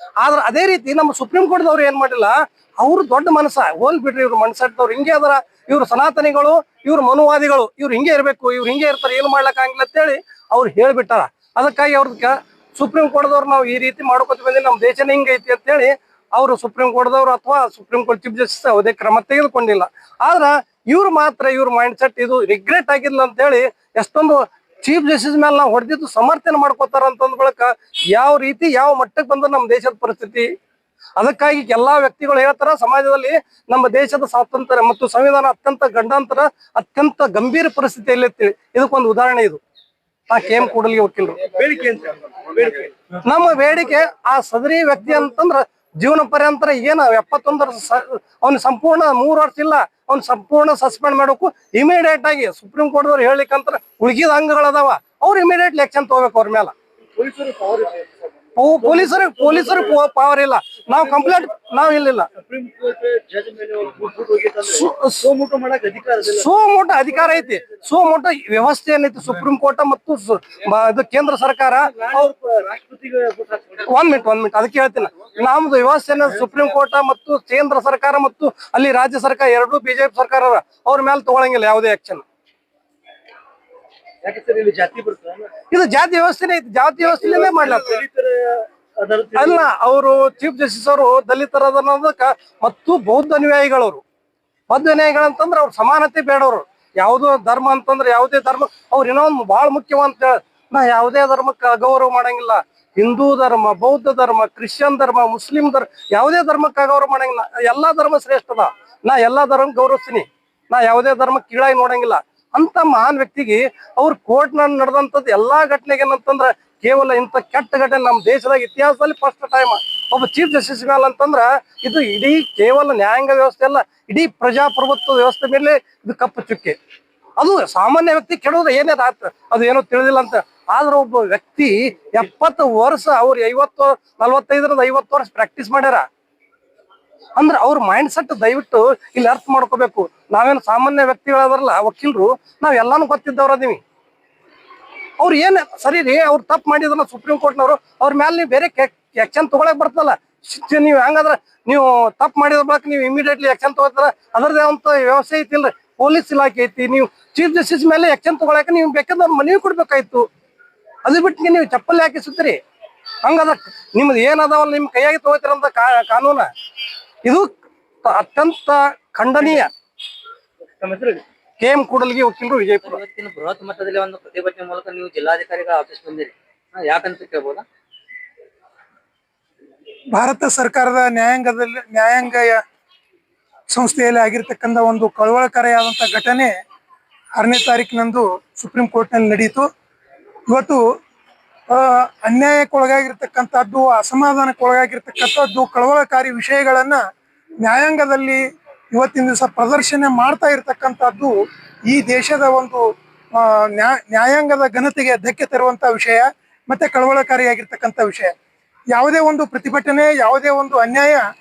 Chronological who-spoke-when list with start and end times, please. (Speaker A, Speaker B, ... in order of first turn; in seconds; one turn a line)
Speaker A: 0.2-30.5
Speaker A: 31.2-39.6
Speaker A: 40.3-41.5
Speaker B: 41.5-42.9
Speaker A: 42.6-56.7
Speaker B: 57.2-58.3
Speaker A: 58.6-62.3
Speaker B: 58.8-59.9
Speaker B: 61.0-61.4
Speaker B: 62.4-66.5
Speaker A: 64.7-65.3
Speaker A: 66.2-72.3
Speaker B: 67.1-67.8
Speaker B: 71.9-73.8
Speaker A: 73.9-82.2
Speaker B: 84.2-85.5
Speaker A: 85.7-88.0
Speaker B: 87.2-89.7
Speaker A: 89.3-94.0
Speaker A: 94.7-126.8
Speaker A: 127.4-136.1
Speaker A: 137.4-143.8
Speaker A: 145.2-160.3
Speaker A: 161.1-162.6
Speaker A: 163.2-166.5
Speaker A: 168.1-169.7
Speaker A: 171.6-173.0
Speaker C: 172.9-177.6
Speaker D: 180.1-182.6
Speaker D: 183.7-186.5
Speaker D: 187.4-189.7
Speaker D: 190.5-190.8
Speaker D: 191.7-197.0
Speaker D: 197.6-201.3
Speaker D: 201.9-202.8
Speaker D: 203.4-208.3
Speaker D: 208.9-211.2